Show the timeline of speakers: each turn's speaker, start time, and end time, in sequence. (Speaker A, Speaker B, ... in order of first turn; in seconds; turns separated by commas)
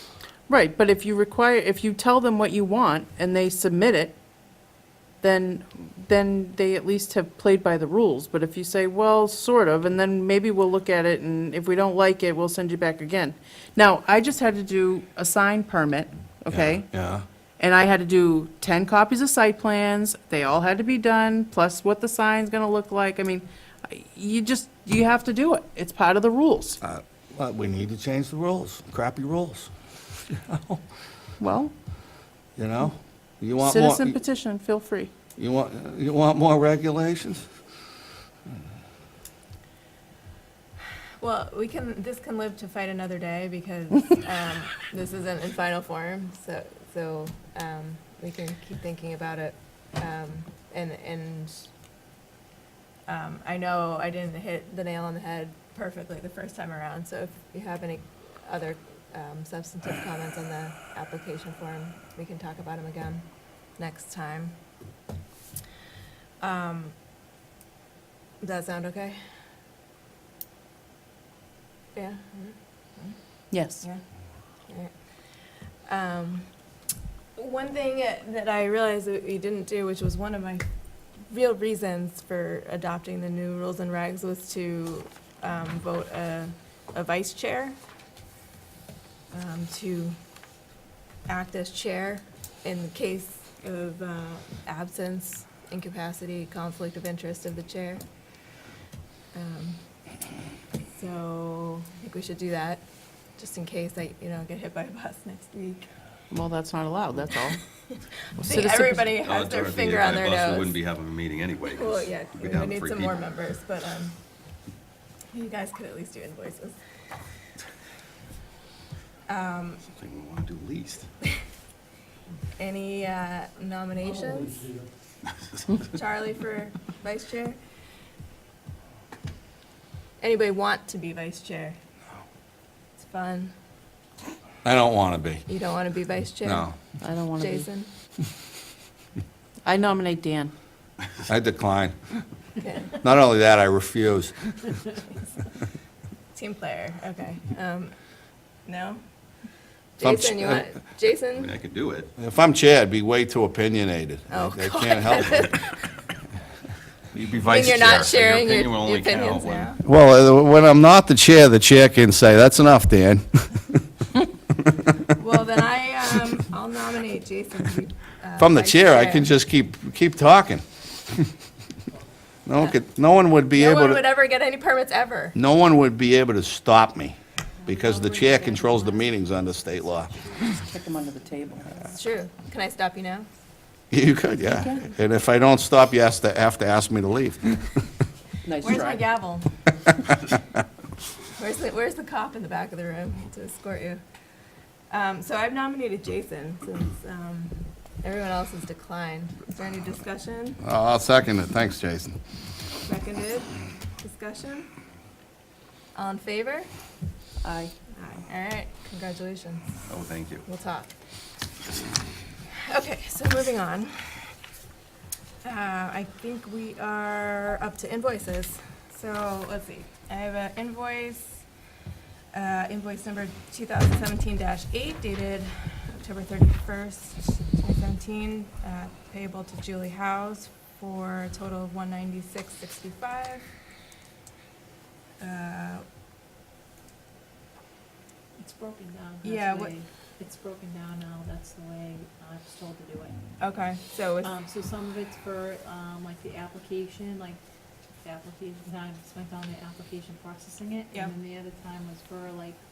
Speaker A: 0.5-4.2, Speaker A: 5.2-16.9, Speaker B: 16.5-17.2, Speaker A: 17.6-26.8, Speaker B: 26.8-29.7, Speaker B: 30.3-30.8, Speaker A: 31.4-31.7, Speaker B: 32.6-34.2, Speaker A: 33.6-35.1, Speaker B: 35.4-37.5, Speaker C: 41.2-51.7, Speaker C: 53.1-63.2, Speaker C: 63.8-64.6, Speaker C: 66.4-67.0, Speaker C: 68.4-69.2, Speaker C: 72.0-73.2, Speaker A: 73.5-73.8, Speaker C: 75.9-76.5, Speaker C: 77.4-80.7, Speaker C: 81.3-87.8, Speaker C: 89.3-90.2, Speaker C: 91.3-98.0, Speaker C: 99.3-99.8, Speaker C: 100.9-102.8, Speaker C: 103.4-105.9, Speaker A: 106.3-107.6, Speaker C: 107.9-110.8, Speaker A: 108.4-109.2, Speaker D: 109.2-113.3, Speaker C: 111.7-114.2, Speaker C: 115.3-116.8, Speaker C: 119.3-119.8, Speaker D: 119.9-121.1, Speaker C: 122.6-124.8, Speaker C: 125.8-127.6, Speaker C: 130.2-131.8, Speaker C: 133.0-133.5, Speaker B: 134.6-135.4, Speaker C: 135.5-136.7, Speaker B: 136.4-136.8, Speaker A: 137.0-137.7, Speaker C: 137.4-137.9, Speaker A: 139.7-140.5, Speaker B: 141.3-142.0, Speaker C: 142.6-142.9, Speaker B: 142.9-144.5, Speaker C: 146.3-147.9, Speaker C: 148.7-149.0, Speaker C: 150.0-151.5, Speaker B: 150.0-150.7, Speaker D: 151.4-152.1, Speaker B: 152.2-155.6, Speaker C: 154.3-155.9, Speaker D: 157.1-159.8, Speaker C: 157.4-159.8, Speaker B: 159.8-163.8, Speaker C: 165.2-169.3, Speaker B: 168.4-171.3, Speaker B: 172.5-174.1, Speaker C: 173.5-175.4, Speaker B: 175.3-180.1, Speaker E: 177.6-180.6, Speaker A: 180.6-181.9, Speaker C: 181.9-183.3, Speaker B: 183.9-187.8, Speaker A: 184.6-184.8, Speaker A: 188.5-189.0, Speaker C: 188.6-189.5, Speaker C: 191.4-194.0, Speaker C: 194.9-200.6, Speaker B: 200.6-202.2, Speaker C: 202.8-204.7, Speaker C: 205.9-206.7, Speaker A: 207.4-207.7, Speaker C: 207.9-209.8, Speaker D: 209.9-210.4, Speaker C: 210.4-210.9, Speaker C: 212.5-214.3, Speaker C: 215.4-221.4, Speaker C: 222.3-233.5, Speaker C: 235.2-235.8, Speaker E: 238.4-243.3, Speaker C: 239.2-239.8, Speaker C: 243.4-244.3, Speaker E: 244.2-247.4, Speaker E: 248.0-252.6